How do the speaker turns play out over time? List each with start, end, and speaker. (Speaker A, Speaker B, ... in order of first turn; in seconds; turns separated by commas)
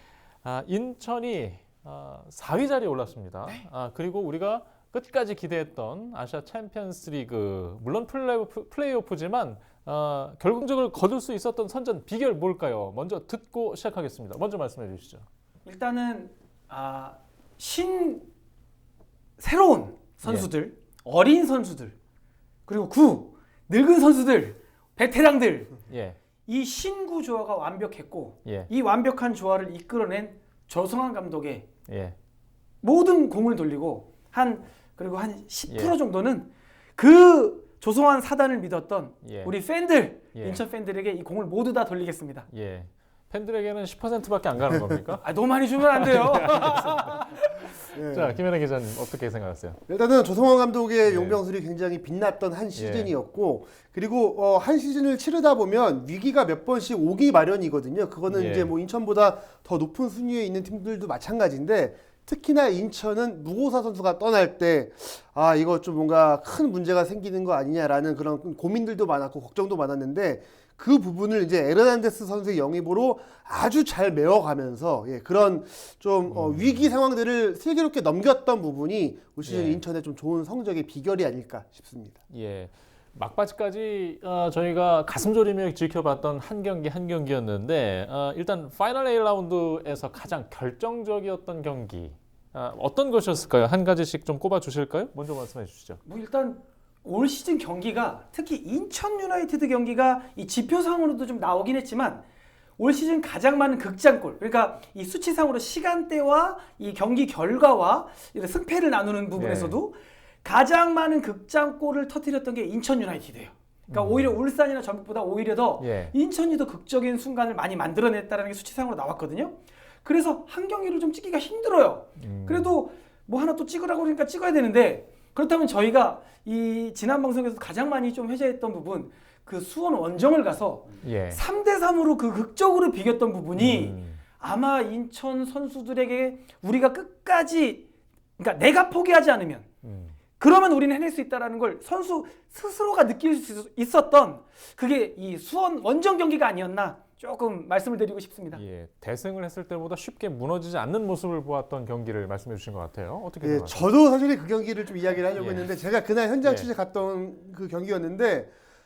Speaker A: 0.4-15.2, Speaker B: 15.7-18.3, Speaker B: 19.4-21.9, Speaker A: 20.2-20.5, Speaker B: 22.7-25.8, Speaker A: 25.9-26.2, Speaker B: 26.5-31.7, Speaker A: 31.9-32.2, Speaker B: 32.8-42.5, Speaker A: 35.7-36.0, Speaker A: 39.2-39.5, Speaker A: 40.3-40.6, Speaker A: 42.5-45.2, Speaker B: 45.2-47.7, Speaker A: 45.8-49.8, Speaker C: 47.9-48.4, Speaker C: 49.9-82.2, Speaker A: 51.0-51.4, Speaker A: 52.8-53.1, Speaker A: 58.3-58.7, Speaker A: 76.3-76.9, Speaker A: 79.4-79.8, Speaker A: 82.3-96.0, Speaker B: 96.0-102.2, Speaker B: 102.8-137.8, Speaker A: 109.4-109.8, Speaker A: 113.9-114.4, Speaker A: 115.8-116.1, Speaker A: 122.2-122.8, Speaker A: 131.0-131.4, Speaker A: 133.6-134.2, Speaker B: 138.4-139.7, Speaker A: 139.8-140.1, Speaker B: 140.4-148.6, Speaker A: 148.5-153.9, Speaker C: 153.4-158.5, Speaker A: 155.3-155.7, Speaker A: 156.4-156.7